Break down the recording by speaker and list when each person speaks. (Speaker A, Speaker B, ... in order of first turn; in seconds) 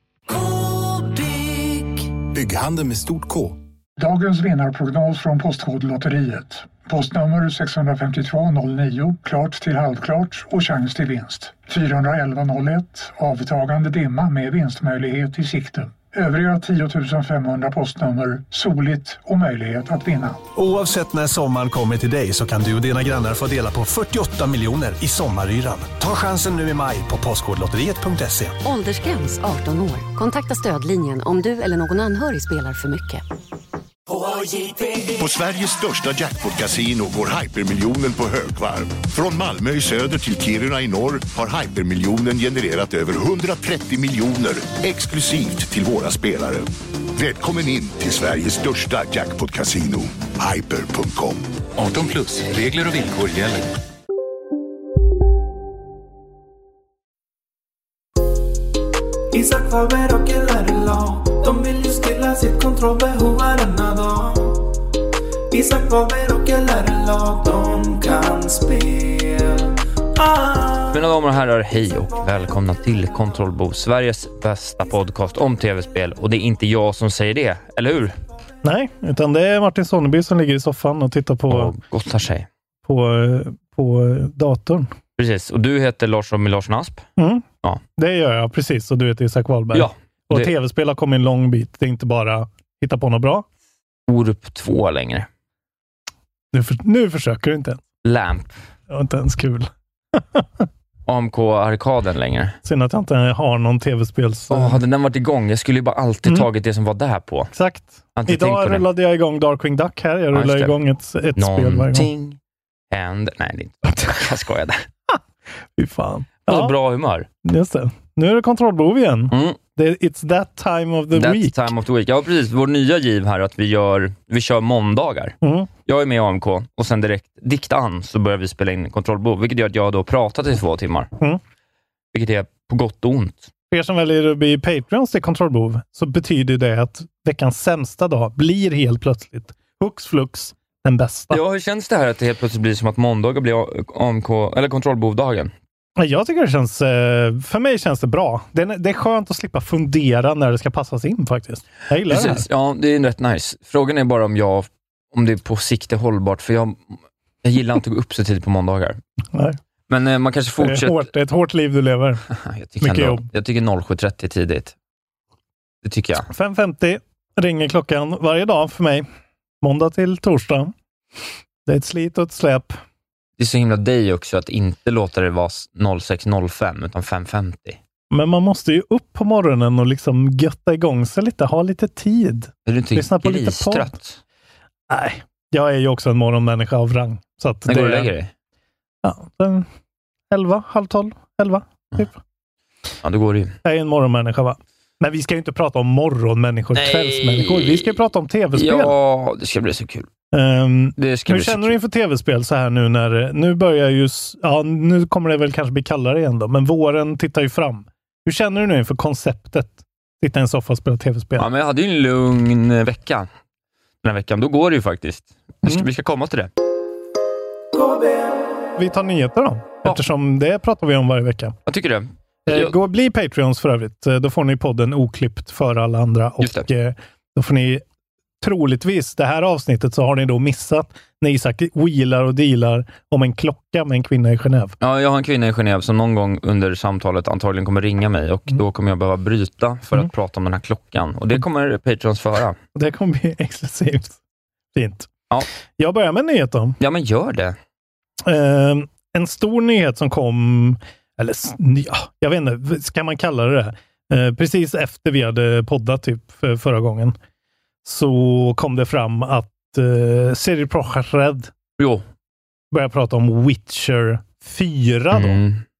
Speaker A: 4.0-20.4
Speaker B: 20.6-28.6, 34.2-35.0
Speaker C: 28.6-33.2
Speaker D: 35.1-51.4
Speaker E: 51.7-53.7
Speaker F: 59.3-64.7, 65.5-71.0, 217.8-218.2
Speaker G: 70.9-78.2, 81.5-82.5, 85.2-87.0, 89.7-90.5, 94.1-95.3, 98.0-98.5, 101.1-102.6, 104.5-107.5, 108.2-108.8, 110.3-110.8, 111.3-112.4, 112.9-114.8, 116.5-117.3, 119.3-119.6, 121.1-131.1, 132.1-133.5, 141.3-145.5, 152.1-159.0, 159.9-161.1, 162.3-164.7, 165.8-166.3, 173.4-177.8, 182.7-184.2, 187.7-188.3, 193.0-193.5, 196.7-197.9, 198.5-200.1, 201.0-201.7, 211.4-213.3, 214.0-216.5, 221.7-222.7, 226.4-226.7, 234.8-242.6, 246.8-247.6, 261.8-262.0, 265.1-265.6
Speaker H: 78.6-81.7, 82.8-84.9, 87.2-87.5, 88.0-93.5, 96.5-97.8, 98.9-100.7, 102.6-104.8, 107.5-112.1, 115.8-116.7, 117.4-121.7, 125.4-125.7, 133.7-141.4, 146.0-152.4, 160.6-162.2, 162.8-163.2, 166.3-169.1, 169.6-170.7, 171.7-172.8, 178.1-183.9, 184.9-188.1, 189.0-189.7, 190.3-192.2, 193.6-198.9, 200.3-211.5, 218.8-221.6, 222.5-227.8, 228.4-234.8, 242.7-244.2, 244.7-245.1, 245.8-246.8, 248.2-257.1, 257.8-261.5, 262.7-265.4